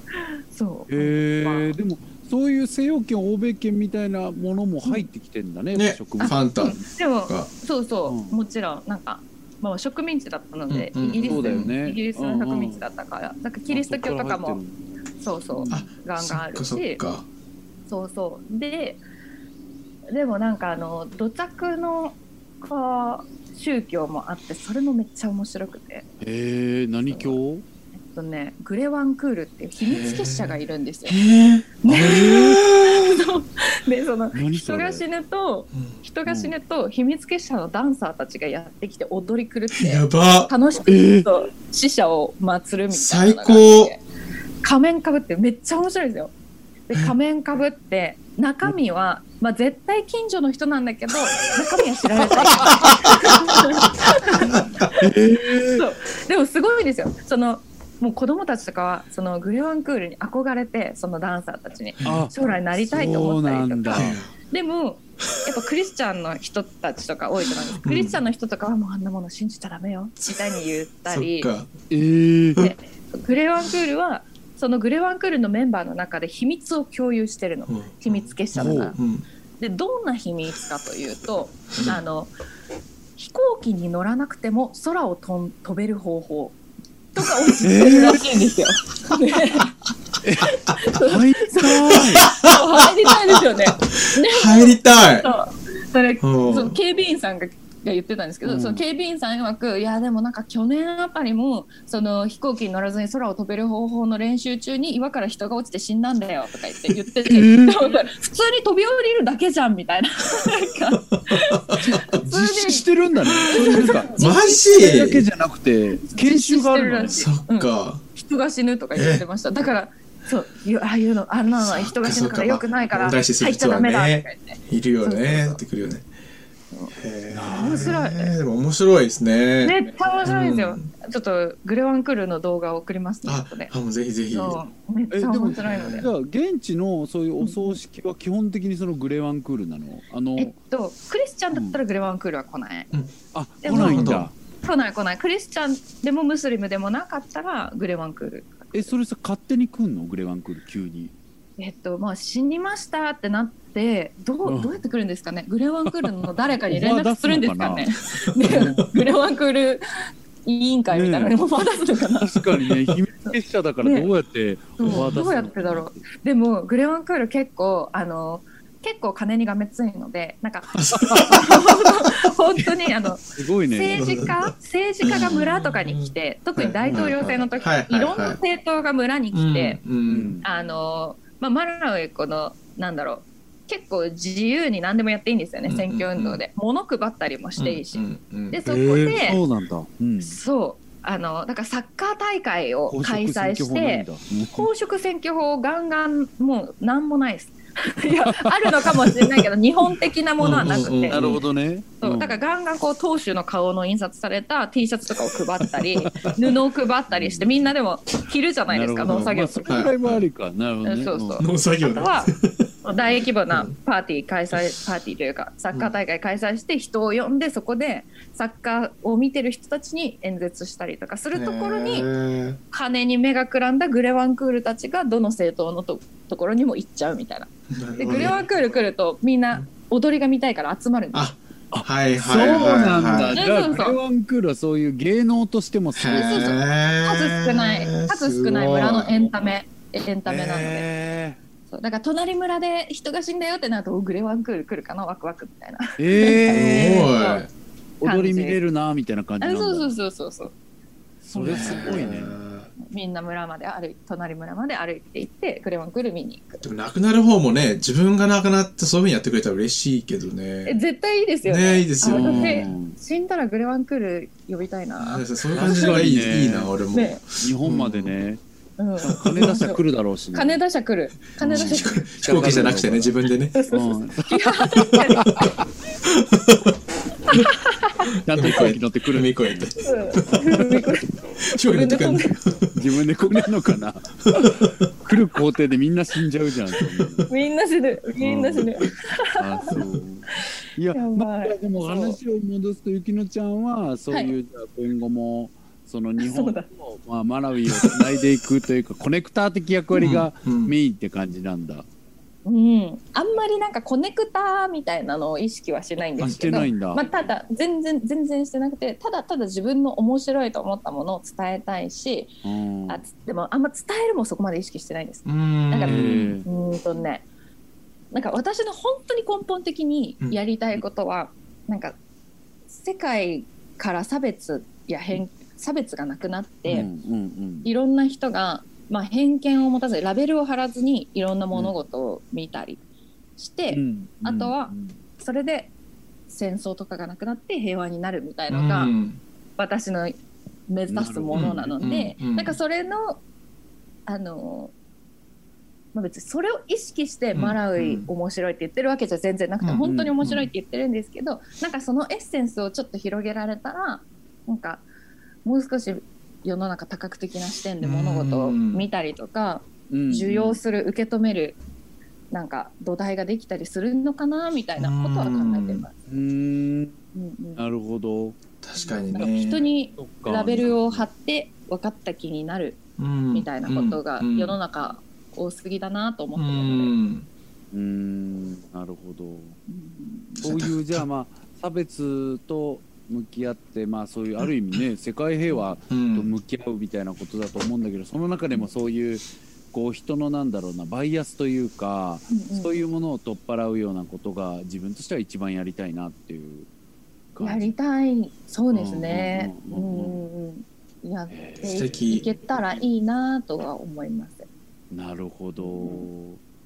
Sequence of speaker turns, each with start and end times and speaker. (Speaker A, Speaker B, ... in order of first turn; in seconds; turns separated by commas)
Speaker A: 0.2-1.7, Speaker B: 0.9-6.9, Speaker C: 5.8-7.5, Speaker A: 6.2-14.6, Speaker B: 8.1-8.4, Speaker C: 10.7-11.7, Speaker B: 11.2-12.8, Speaker B: 13.7-14.8, Speaker A: 15.2-17.0, Speaker B: 15.5-15.9, Speaker C: 15.7-17.3, Speaker A: 17.9-19.0, Speaker A: 20.1-26.1, Speaker B: 26.2-27.6, Speaker A: 27.1-27.4, Speaker A: 28.0-31.2, Speaker C: 29.8-33.2, Speaker A: 31.8-44.0, Speaker B: 32.1-32.6, Speaker B: 34.3-35.0, Speaker B: 36.3-36.5, Speaker C: 39.7-40.5, Speaker B: 40.9-41.3, Speaker C: 42.9-43.9, Speaker A: 44.6-46.3, Speaker A: 46.9-71.5, Speaker B: 52.6-53.0, Speaker C: 54.4-54.9, Speaker B: 55.0-55.8, Speaker C: 62.0-62.3, Speaker B: 62.0-64.2, Speaker C: 63.9-64.3, Speaker C: 67.8-68.2, Speaker C: 70.2-71.7, Speaker B: 71.9-72.7, Speaker A: 72.6-79.0, Speaker C: 77.7-79.2, Speaker B: 78.5-79.0, Speaker A: 79.6-82.3, Speaker A: 83.2-86.6, Speaker A: 87.1-89.7, Speaker C: 87.2-87.5, Speaker B: 87.6-88.2, Speaker B: 90.2-92.3, Speaker A: 90.4-112.9, Speaker C: 92.0-92.6, Speaker C: 93.4-95.3, Speaker C: 96.2-96.8, Speaker B: 98.4-98.8, Speaker B: 107.3-107.8, Speaker C: 111.3-111.8, Speaker B: 111.8-114.2, Speaker A: 113.5-115.0, Speaker C: 113.6-115.3, Speaker B: 114.7-117.3, Speaker A: 116.0-125.6, Speaker C: 117.1-118.0, Speaker C: 119.0-119.2, Speaker C: 121.6-126.1, Speaker C: 126.9-130.9, Speaker B: 127.3-128.0, Speaker A: 127.5-128.3, Speaker A: 129.6-133.7, Speaker C: 133.2-134.6, Speaker A: 134.3-136.1, Speaker B: 135.1-140.5, Speaker C: 135.6-136.1, Speaker A: 137.4-137.8, Speaker A: 140.4-142.9, Speaker B: 141.5-141.8, Speaker B: 143.3-144.3, Speaker A: 143.6-148.9, Speaker C: 143.7-144.3, Speaker B: 148.7-151.1, Speaker A: 151.6-159.8, Speaker B: 154.4-154.8, Speaker B: 156.7-157.9, Speaker C: 158.4-158.9, Speaker B: 158.4-158.9, Speaker A: 160.4-162.4, Speaker B: 160.9-161.4, Speaker B: 162.2-166.0, Speaker A: 163.3-164.1, Speaker A: 164.8-179.8, Speaker C: 164.8-165.3, Speaker C: 170.8-172.1, Speaker B: 170.9-171.4, Speaker B: 173.3-174.1, Speaker C: 173.9-178.4, Speaker B: 176.8-177.2, Speaker C: 179.3-180.4, Speaker B: 180.1-180.4, Speaker A: 180.4-189.4, Speaker C: 185.7-186.4, Speaker C: 187.6-189.2, Speaker B: 188.7-190.4, Speaker A: 190.2-201.3, Speaker B: 192.9-194.7, Speaker B: 198.1-199.5, Speaker C: 200.4-201.4, Speaker B: 200.4-202.4, Speaker A: 202.0-209.9, Speaker B: 205.6-206.4, Speaker B: 207.1-207.7, Speaker B: 208.7-211.4, Speaker C: 209.0-210.2, Speaker A: 210.8-212.3, Speaker C: 211.4-212.7, Speaker A: 212.8-222.1, Speaker C: 221.3-222.6, Speaker A: 222.7-231.3, Speaker C: 227.7-228.4, Speaker C: 231.1-233.4, Speaker B: 231.7-236.6, Speaker A: 233.3-234.0, Speaker C: 236.0-239.2, Speaker A: 236.1-240.9, Speaker B: 240.3-241.4, Speaker A: 241.7-247.4, Speaker B: 246.0-247.1, Speaker C: 246.5-247.5, Speaker B: 248.0-249.9, Speaker A: 248.0-248.6, Speaker A: 249.4-250.5, Speaker B: 251.2-252.4, Speaker A: 251.3-252.1, Speaker C: 251.4-252.7, Speaker A: 252.8-256.6, Speaker C: 256.6-260.8, Speaker A: 260.7-266.0, Speaker C: 261.4-262.7, Speaker B: 262.0-263.0, Speaker C: 265.0-268.1, Speaker B: 265.5-266.7, Speaker A: 266.9-267.2, Speaker B: 267.4-268.4, Speaker A: 268.8-269.8, Speaker B: 269.0-270.6, Speaker A: 270.3-272.4, Speaker C: 271.4-273.6, Speaker B: 271.4-273.1, Speaker A: 273.5-275.5, Speaker B: 273.7-275.6, Speaker C: 276.1-276.7, Speaker A: 277.3-278.1, Speaker B: 278.2-279.7, Speaker C: 278.3-280.6, Speaker A: 279.8-282.4, Speaker C: 281.4-282.7, Speaker B: 282.7-287.3, Speaker C: 284.3-284.9, Speaker C: 286.8-287.2, Speaker A: 287.3-289.8, Speaker B: 288.2-301.9, Speaker A: 290.4-292.2, Speaker A: 296.2-296.7, Speaker A: 299.9-300.3, Speaker C: 300.0-300.8, Speaker A: 302.4-312.3, Speaker B: 306.2-307.0, Speaker C: 306.2-306.7, Speaker B: 312.4-313.0, Speaker A: 312.9-317.2, Speaker C: 315.2-316.3, Speaker B: 315.9-316.5, Speaker A: 318.1-322.0, Speaker A: 322.8-326.9, Speaker B: 326.7-327.7, Speaker A: 327.6-332.8, Speaker A: 333.4-335.7, Speaker B: 333.7-335.0, Speaker A: 336.3-338.9, Speaker C: 338.5-339.2, Speaker A: 339.6-340.2, Speaker A: 340.7-343.2, Speaker B: 340.9-341.7, Speaker C: 341.3-342.6, Speaker A: 344.1-344.7, Speaker A: 345.9-354.9, Speaker C: 347.4-348.1, Speaker C: 349.6-350.5, Speaker B: 349.8-350.2, Speaker A: 355.4-361.6, Speaker C: 357.8-358.9, Speaker B: 359.9-360.6, Speaker A: 362.3-365.9, Speaker C: 364.8-365.9, Speaker B: 366.1-367.0, Speaker A: 367.1-367.6, Speaker B: 367.6-371.1, Speaker C: 368.6-369.6, Speaker A: 369.1-372.8, Speaker C: 373.0-374.6, Speaker A: 373.3-376.9, Speaker C: 376.4-377.3, Speaker B: 377.7-379.6, Speaker A: 379.7-380.5, Speaker B: 380.4-396.7, Speaker C: 380.4-381.0, Speaker C: 385.9-386.3, Speaker A: 392.3-392.8, Speaker B: 397.3-397.7, Speaker A: 397.4-404.5, Speaker B: 398.7-400.2, Speaker B: 401.3-402.1, Speaker C: 401.6-402.5, Speaker B: 404.9-406.4, Speaker A: 405.6-406.1